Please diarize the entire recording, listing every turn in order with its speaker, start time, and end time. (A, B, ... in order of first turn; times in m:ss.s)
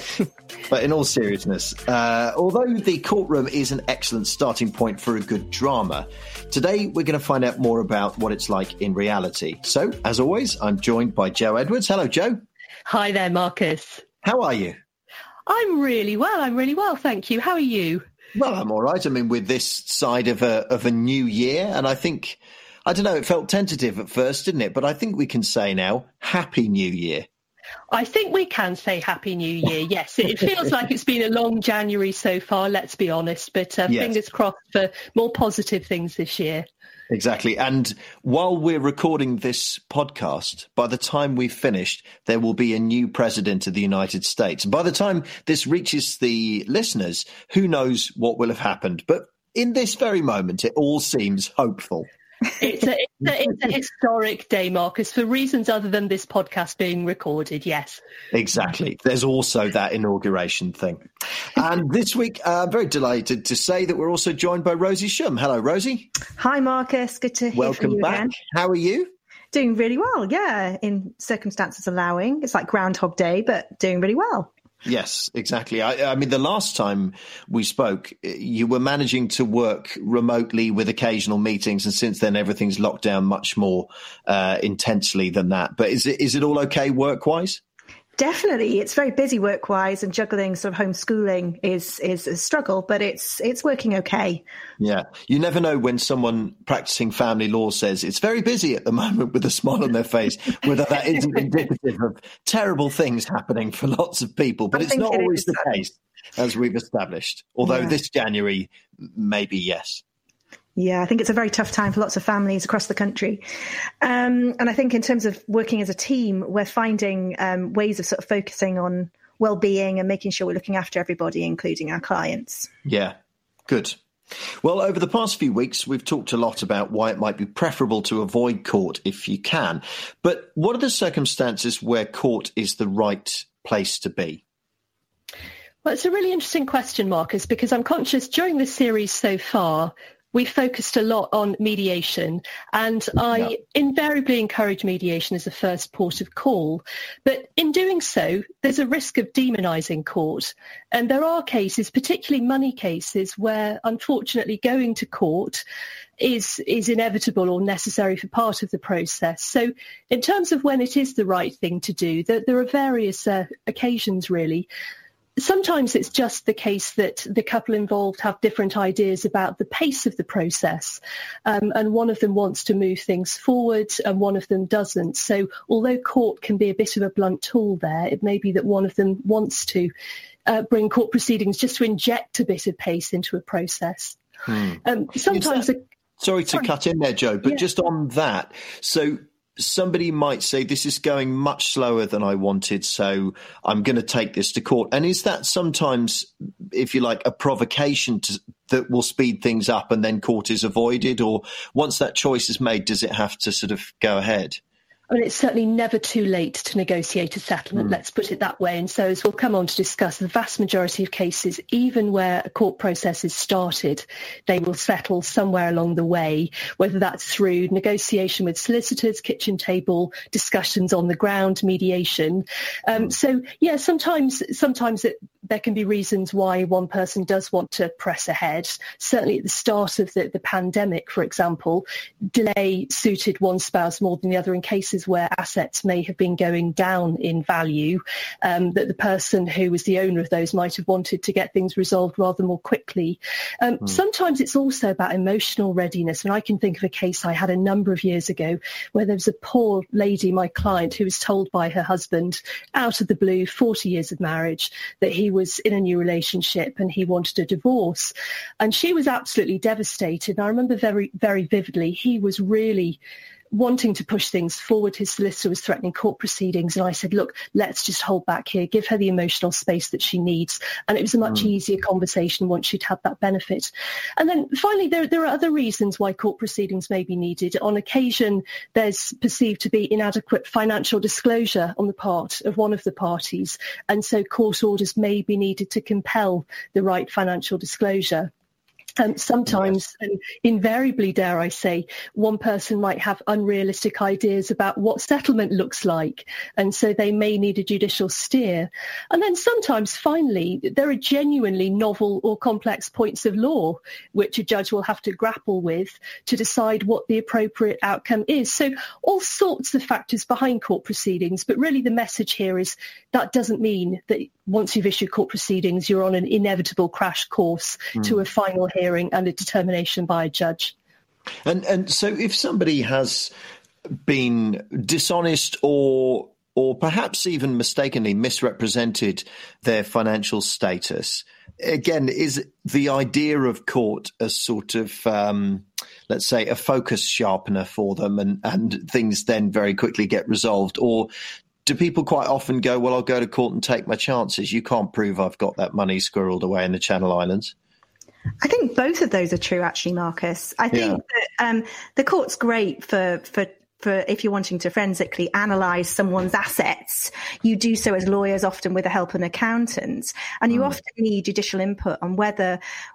0:00.7-0:12.4 A
0:12.9-0:14.0 B
0:14.2-0:14.8 A
0:15.5-0:18.0 B
0:18.4-0:27.3 A
0:27.9-0:36.7 B
0:33.9-0:34.2 A
0:37.1-0:52.1 A
0:52.6-0:58.0 B
0:58.3-1:06.1 A
1:06.4-1:08.3 C
1:07.6-1:09.1 A
1:09.5-1:14.5 C
1:14.8-1:27.6 A
1:28.2-1:34.4 C
1:34.8-1:50.0 A
1:44.7-1:45.7 C
1:50.8-1:53.4 C
1:54.0-2:02.7 C
2:02.8-2:03.2 A
2:03.7-2:04.0 A
2:04.6-2:14.4 A
2:15.8-2:35.6 B
2:36.2-2:44.7 B
2:45.4-2:59.9 B
3:00.5-3:04.2 B
3:04.5-3:05.6 A
3:04.8-3:05.8 B
3:06.2-3:24.6 A
3:25.1-4:23.0 B
4:23.5-4:48.3 B
4:49.0-5:20.7 B
5:21.4-5:23.3 A
5:23.9-5:41.1 A
5:41.6-5:47.6 A
5:48.4-6:02.6 C
5:50.7-5:51.0 A
6:00.5-6:00.8 A